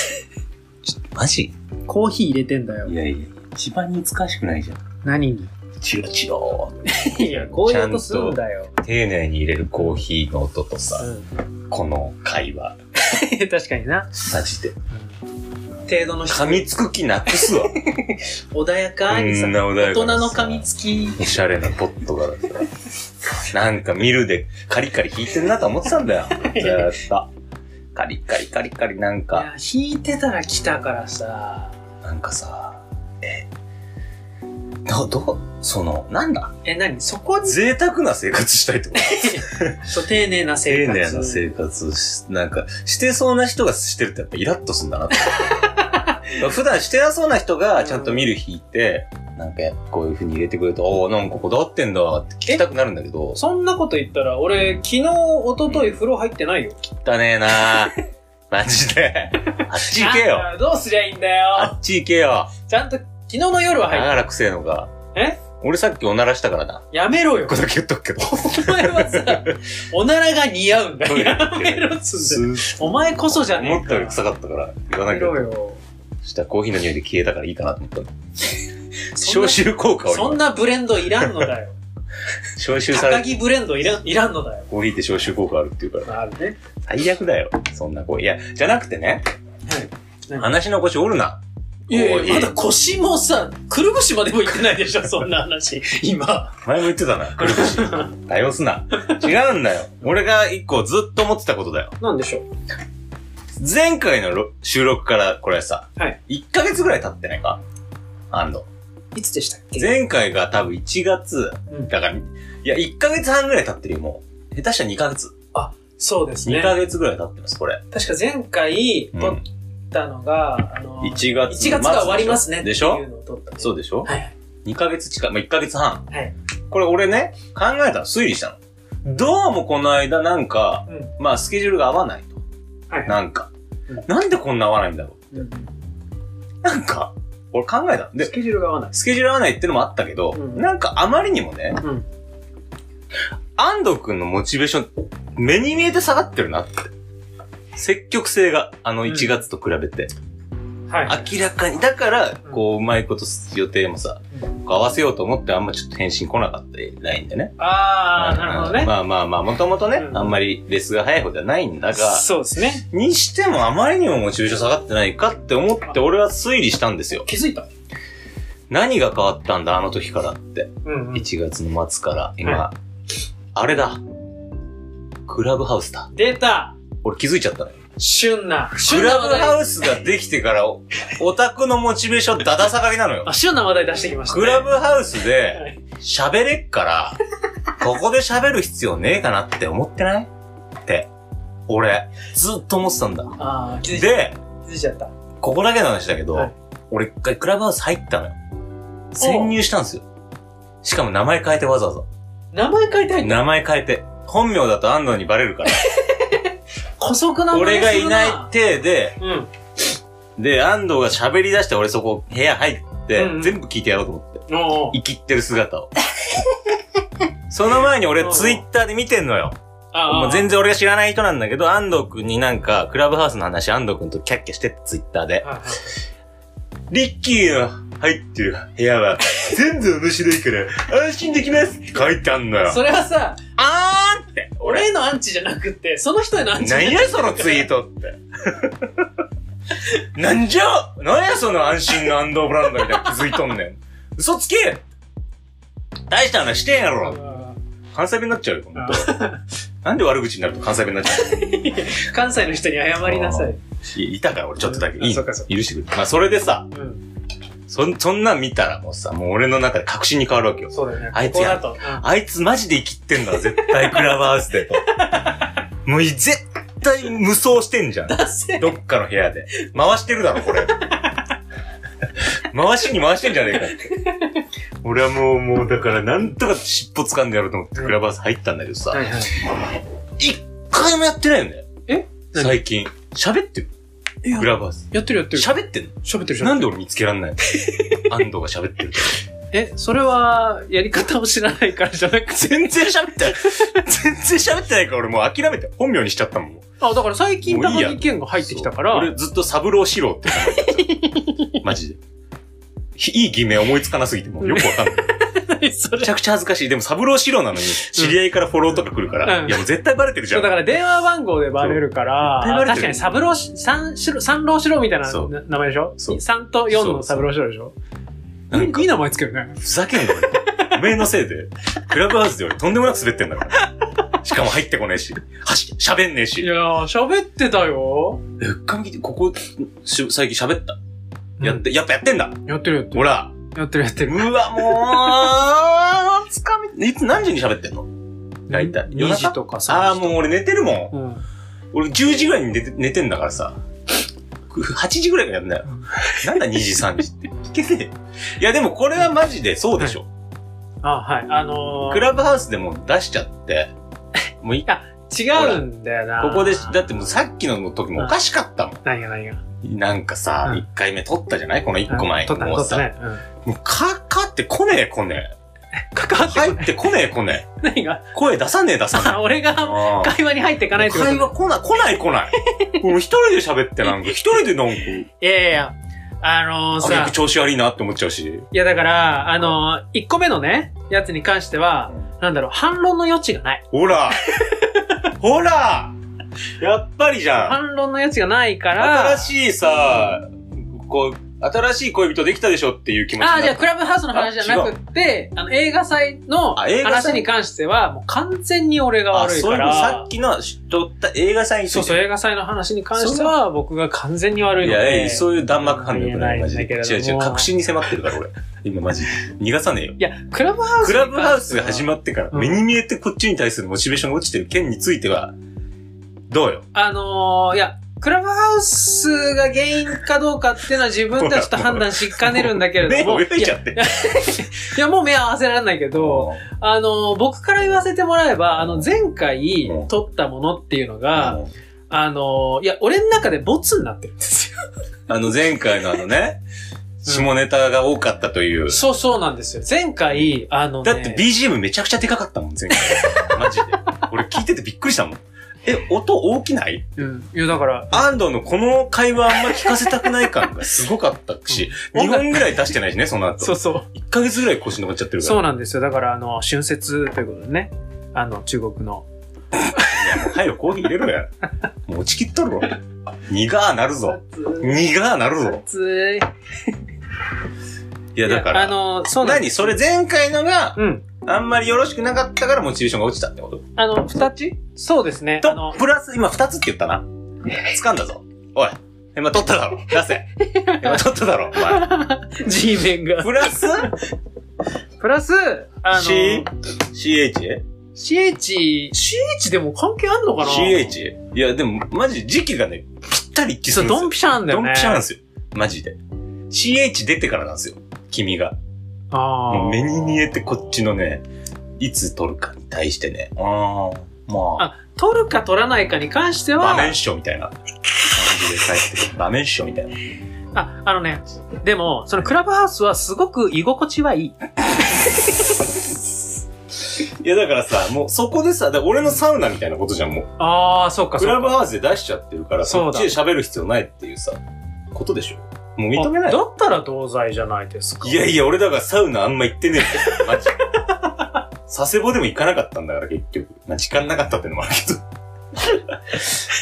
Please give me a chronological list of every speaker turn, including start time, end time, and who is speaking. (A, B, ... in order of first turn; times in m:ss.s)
0:00.8-0:01.5 A
0:01.9-0:02.9 B
0:02.8-0:04.8 A
0:05.0-0:05.5 B
0:05.8-0:11.1 A
0:06.8-0:08.7 B
0:11.0-0:11.3 B
0:11.7-0:12.8 A
0:13.0-0:14.1 B
0:14.2-0:14.7 A
0:15.9-0:16.7 B
0:16.3-0:17.8 A
0:17.3-0:21.2 B
0:19.1-0:22.7 A
0:23.5-0:27.3 A
0:26.3-0:27.0 B
0:27.9-0:29.5 A
0:29.3-0:31.7 B
0:32.0-0:33.5 A
0:34.8-0:36.5 A
0:36.6-0:37.6 B
0:37.4-0:39.8 A
0:39.0-0:41.4 B
0:40.6-0:45.5 A
0:45.3-0:46.2 B
0:46.3-0:53.4 A
0:47.8-0:48.2 B
0:53.4-0:56.8 B
0:55.7-0:56.0 A
0:56.8-0:57.9 A
0:58.5-1:00.5 A
0:59.8-1:01.7 B
1:01.5-1:02.5 A
1:02.6-1:04.2 B
1:03.8-1:04.9 A
1:05.1-1:05.4 B
1:05.6-1:06.8 A
1:06.9-1:07.7 B
1:07.4-1:09.6 A
1:08.2-1:14.2 B
1:11.0-1:15.4 A
1:15.0-1:15.8 B
1:16.2-1:18.1 A
1:19.1-1:21.8 B
1:19.2-1:20.4 A
1:21.2-1:21.5 A
1:22.6-1:23.3 A
1:22.9-1:24.7 B
1:24.7-1:26.1 A
1:26.1-1:26.6 B
1:26.8-1:29.2 A
1:29.6-1:30.5 B
1:30.4-1:32.5 A
1:31.9-1:36.6 B
1:36.6-1:41.9 A
1:37.4-1:38.1 B
1:39.0-1:39.2 B
1:42.0-1:42.4 B
1:43.6-1:47.6 A
1:48.3-1:48.6 A
1:49.1-1:49.9 B
1:49.8-1:55.3 A
1:55.5-1:56.8 B
1:56.4-1:57.8 A
1:57.9-2:04.3 B
1:59.1-1:59.4 A
2:01.0-2:03.0 A
2:03.6-2:04.1 A
2:04.6-2:06.0 A
2:06.7-2:12.4 A
2:12.9-2:13.2 B
2:13.1-2:13.5 A
2:14.0-2:15.4 A
2:15.3-2:15.7 B
2:16.6-2:18.3 A
2:18.2-2:19.0 B
2:18.9-2:21.8 A
2:20.3-2:20.6 B
2:21.8-2:22.0 B
2:23.6-2:26.9 A
2:27.7-2:30.1 A
2:29.1-2:29.4 B
2:30.9-2:31.3 B
2:31.1-2:37.5 A
2:37.6-2:38.9 B
2:38.1-2:42.3 A
2:39.9-2:40.4 B
2:41.9-2:42.8 B
2:42.9-2:47.3 A
2:47.2-2:47.7 B
2:48.7-2:52.7 A
2:50.8-2:51.3 B
2:53.5-2:54.0 A
2:55.3-2:56.1 A
2:56.1-2:56.8 B
2:57.0-2:57.8 A
2:58.0-2:59.6 B
2:58.8-3:03.3 A
3:03.2-3:04.7 B
3:04.3-3:07.2 A
3:05.5-3:05.8 B
3:07.7-3:10.3 A
3:11.7-3:13.3 A
3:13.4-3:15.1 B
3:13.9-3:14.4 A
3:15.4-3:18.4 A
3:19.1-3:20.0 A
3:19.2-3:19.6 B
3:20.8-3:22.0 A
3:22.5-3:23.5 B
3:23.2-3:25.9 A
3:25.9-3:28.5 B
3:27.5-3:29.2 A
3:29.2-3:29.5 B
3:30.4-3:35.9 A
3:33.2-3:33.5 B
3:34.5-3:34.9 B
3:37.5-3:39.6 A
3:38.2-3:38.6 B
3:39.9-3:40.5 B
3:40.1-3:45.4 A
3:45.4-3:45.9 B
3:46.9-3:52.8 A
3:52.6-3:53.4 B
3:53.6-3:54.9 A
3:54.6-3:57.6 B
3:56.6-3:59.1 A
4:00.0-4:04.8 A
4:02.8-4:03.2 B
4:06.1-4:07.2 A
4:07.0-4:07.6 B
4:07.9-4:09.2 A
4:08.7-4:09.4 B
4:09.8-4:11.4 A
4:11.1-4:13.6 B
4:13.0-4:16.7 A
4:14.6-4:15.5 B
4:16.7-4:17.0 B
4:17.7-4:24.8 A
4:20.7-4:22.0 B
4:23.5-4:24.2 B
4:25.1-4:25.4 B
4:25.8-4:30.8 A
4:28.1-4:28.7 B
4:30.4-4:31.0 B
4:32.5-4:33.9 A
4:33.6-4:34.4 B
4:34.8-4:39.2 A
4:38.9-4:39.4 B
4:40.2-4:41.7 A
4:41.9-4:42.6 B
4:42.4-4:43.7 A
4:44.2-4:46.6 B
4:44.3-4:49.2 A
4:47.5-4:48.1 B
4:49.5-4:52.8 B
4:52.3-4:56.6 A
4:53.4-4:53.7 B
4:56.8-4:59.1 B
4:57.4-5:01.0 A
5:00.3-5:01.6 B
5:01.6-5:02.0 A
5:03.0-5:05.1 A
5:04.4-5:06.1 B
5:06.0-5:10.7 A
5:07.9-5:08.2 B
5:09.2-5:09.6 B
5:10.3-5:17.7 B
5:11.6-5:13.1 A
5:15.0-5:15.3 A
5:16.0-5:17.3 A
5:18.5-5:18.9 A
5:18.5-5:19.6 B
5:19.6-5:23.6 A
5:20.2-5:20.7 B
5:24.2-5:26.5 A
5:26.4-5:28.2 B
5:28.4-5:30.8 A
5:31.4-5:31.6 B
5:31.4-5:32.4 A
5:32.4-5:35.3 B
5:32.9-5:33.3 A
5:34.0-5:37.9 A
5:38.5-5:40.3 B
5:38.5-5:40.9 A
5:40.9-5:41.2 B
5:41.7-5:43.6 A
5:44.5-5:50.0 A
5:45.9-5:46.7 B
5:50.8-5:52.1 B
5:51.9-5:53.7 A
5:54.4-5:54.7 A
5:54.6-5:57.1 B
5:55.3-5:55.6 A
5:56.2-5:58.8 A
5:58.8-5:59.4 B
5:59.6-6:02.9 A
6:01.9-6:03.2 B
6:03.4-6:05.3 A
6:05.9-6:06.7 B
6:06.2-6:07.4 A
6:07.6-6:08.1 B
6:08.1-6:10.2 A
6:08.9-6:11.3 B
6:10.7-6:15.1 A
6:12.5-6:12.8 B
6:15.2-6:17.2 B
6:16.8-6:18.4 A
6:18.5-6:25.0 B
6:23.7-6:24.2 A
6:25.2-6:25.9 A
6:26.6-6:27.6 A
6:27.4-6:29.3 B
6:28.8-6:34.7 A
6:33.2-6:40.1 B
6:36.6-6:37.3 A
6:39.1-6:42.0 A
6:41.7-6:47.5 B
6:43.0-6:43.3 A
6:44.6-6:50.0 A
6:50.0-6:52.6 B
6:50.8-6:55.3 A
6:56.3-6:56.6 A
6:56.7-7:14.6 B
7:01.1-7:03.9 A
7:05.9-7:06.4 A
7:08.6-7:08.9 A
7:09.6-7:09.9 A
7:11.1-7:11.5 A
7:15.1-7:16.4 A
7:17.0-7:18.8 A
7:17.0-7:17.3 B
7:18.7-7:21.3 B
7:20.8-7:27.1 A
7:22.7-7:23.3 B
7:27.0-7:28.1 B
7:27.9-7:35.4 A
7:29.5-7:30.3 B
7:31.5-7:32.5 B
7:33.4-7:33.9 B
7:35.2-7:39.0 B
7:39.7-7:40.2 B
7:39.9-7:41.3 A
7:41.8-7:42.8 A
7:43.3-7:45.6 A
7:44.0-7:44.8 B
7:45.4-7:46.3 B
7:48.1-7:53.6 A
7:48.2-7:49.8 B
7:50.8-7:51.0 B
7:53.8-7:55.8 B
7:55.4-8:00.3 A
8:00.4-8:04.0 B
8:00.8-8:01.9 A
8:03.2-8:03.9 A
8:05.0-8:06.5 B
8:05.9-8:07.6 A
8:08.0-8:10.9 B
8:10.4-8:16.0 A
8:13.7-8:15.0 B
8:16.5-8:18.6 A
8:19.1-8:20.0 B
8:19.5-8:21.2 A
8:21.8-8:24.7 A
8:24.6-8:27.0 B
8:26.6-8:27.5 A
8:28.1-8:29.9 A
8:30.5-8:34.4 B
8:36.9-8:40.3 A
8:40.4-8:41.6 B
8:41.2-8:44.4 A
8:42.6-8:43.1 B
8:44.9-8:46.4 A
8:46.0-8:48.3 B
8:48.0-8:50.6 A
8:51.7-8:55.0 A
8:55.7-8:56.3 A